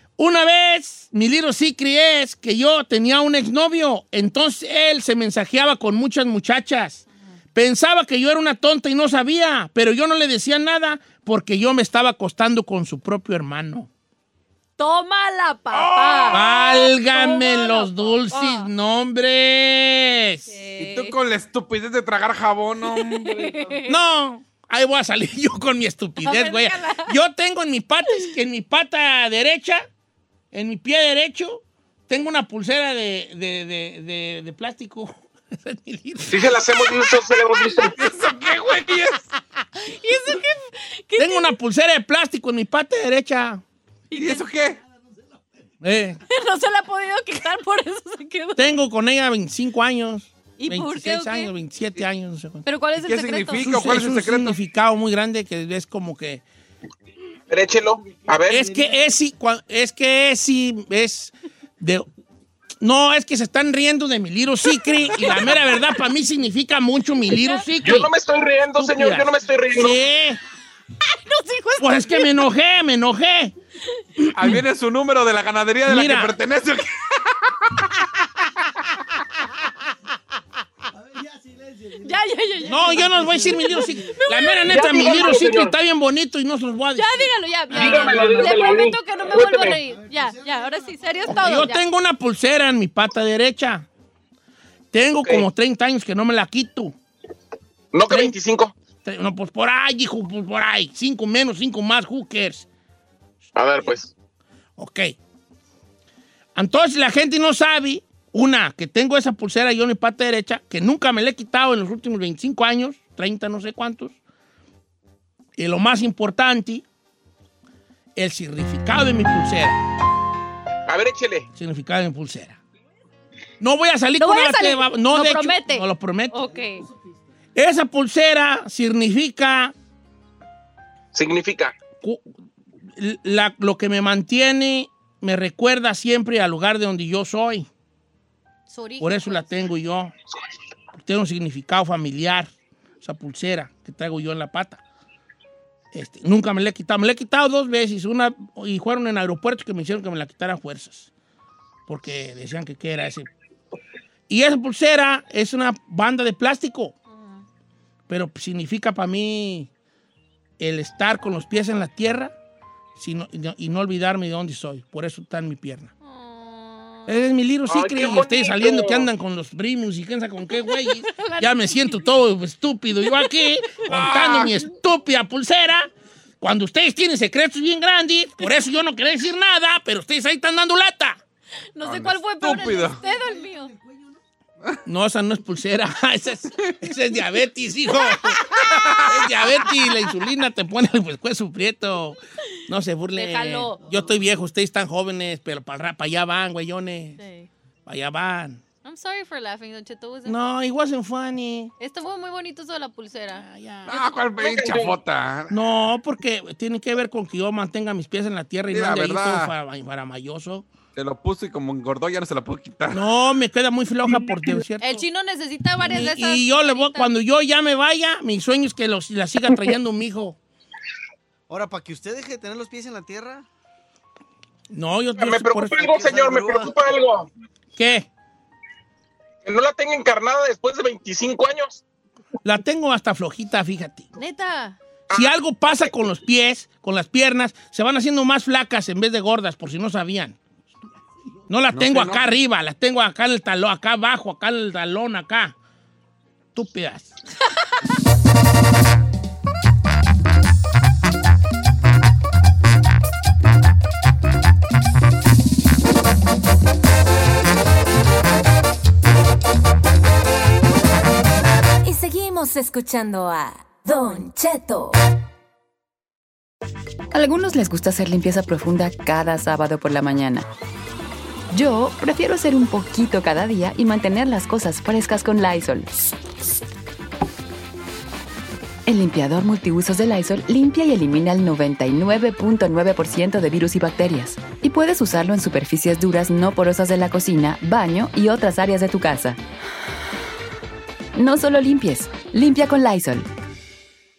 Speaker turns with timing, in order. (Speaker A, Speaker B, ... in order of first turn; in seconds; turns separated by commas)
Speaker A: 0.2-13.9, Speaker B: 14.8-18.7, Speaker C: 15.7-16.5, Speaker A: 16.3-20.5, Speaker B: 20.5-21.2, Speaker C: 20.8-23.7, Speaker B: 22.8-24.0, Speaker A: 23.9-29.9, Speaker B: 26.2-27.2, Speaker A: 30.5-36.9, Speaker D: 36.3-38.0, Speaker C: 37.9-39.2, Speaker B: 39.8-41.5, Speaker A: 41.2-43.6, Speaker B: 44.1-44.5, Speaker C: 44.1-44.8, Speaker A: 45.8-46.2, Speaker B: 46.3-48.8, Speaker A: 48.6-52.7, Speaker B: 50.6-51.5, Speaker B: 52.6-53.7, Speaker C: 53.0-54.6, Speaker A: 53.6-56.4, Speaker D: 57.5-58.7, Speaker A: 58.5-62.1, Speaker A: 62.8-68.1, Speaker B: 65.1-65.8, Speaker B: 67.3-67.6, Speaker D: 67.8-70.0, Speaker A: 68.8-70.4, Speaker B: 71.1-72.5, Speaker A: 71.8-73.5, Speaker A: 74.2-74.6, Speaker C: 74.3-77.3, Speaker A: 75.9-76.3, Speaker E: 80.9-83.9, Speaker B: 82.0-85.3, Speaker A: 82.7-88.3, Speaker D: 84.7-85.7, Speaker B: 87.0-91.8, Speaker D: 87.7-89.8, Speaker E: 89.8-91.7, Speaker A: 91.3-93.9, Speaker A: 94.9-97.0, Speaker D: 95.2-95.5, Speaker D: 97.9-98.7, Speaker A: 98.1-98.3, Speaker A: 99.0-102.7, Speaker D: 103.5-104.1, Speaker A: 104.8-105.1, Speaker A: 106.6-114.1, Speaker A: 115.6-116.8, Speaker A: 118.2-119.8, Speaker D: 120.9-121.5, Speaker A: 121.5-122.6, Speaker A: 123.6-126.5, Speaker B: 124.2-126.8, Speaker E: 126.7-127.1, Speaker A: 127.5-129.7, Speaker D: 131.1-131.8, Speaker A: 133.0-137.7, Speaker B: 138.7-139.6, Speaker A: 139.0-140.1, Speaker A: 140.9-142.5, Speaker A: 143.0-144.8, Speaker A: 145.9-151.1, Speaker A: 151.9-153.3, Speaker A: 154.3-157.0, Speaker B: 157.1-157.4, Speaker A: 158.1-159.7, Speaker A: 160.6-162.3, Speaker A: 163.0-165.9, Speaker B: 166.0-167.1, Speaker A: 167.1-175.9, Speaker D: 167.7-169.1, Speaker B: 170.6-172.0, Speaker C: 173.8-174.6, Speaker A: 176.4-181.2, Speaker B: 181.8-183.7, Speaker C: 181.8-183.0, Speaker E: 183.0-184.2, Speaker A: 184.8-188.5, Speaker B: 187.9-188.6, Speaker C: 188.5-189.2, Speaker A: 189.0-197.2, Speaker B: 189.6-190.0, Speaker B: 193.2-193.8, Speaker B: 197.2-197.5, Speaker A: 197.9-198.6, Speaker B: 198.8-200.4, Speaker A: 200.3-201.7, Speaker B: 201.8-203.4, Speaker A: 203.3-203.9, Speaker C: 203.9-205.5, Speaker D: 204.4-205.0, Speaker A: 205.5-210.7, Speaker C: 208.7-209.5, Speaker C: 210.9-213.1, Speaker A: 212.9-215.0, Speaker B: 214.8-217.1, Speaker A: 215.8-220.4, Speaker E: 221.5-223.4, Speaker A: 224.7-226.1, Speaker D: 225.2-227.3, Speaker E: 225.9-226.8, Speaker A: 227.8-228.1, Speaker D: 229.4-231.8, Speaker A: 232.4-234.1, Speaker B: 234.2-234.8, Speaker D: 235.1-235.3, Speaker A: 235.1-240.4, Speaker A: 241.5-245.5, Speaker C: 241.7-242.2, Speaker A: 246.6-247.2, Speaker F: 261.8-265.0, Speaker G: 267.1-270.5, Speaker G: 271.5-275.9, Speaker G: 278.9-289.4, Speaker G: 291.2-293.3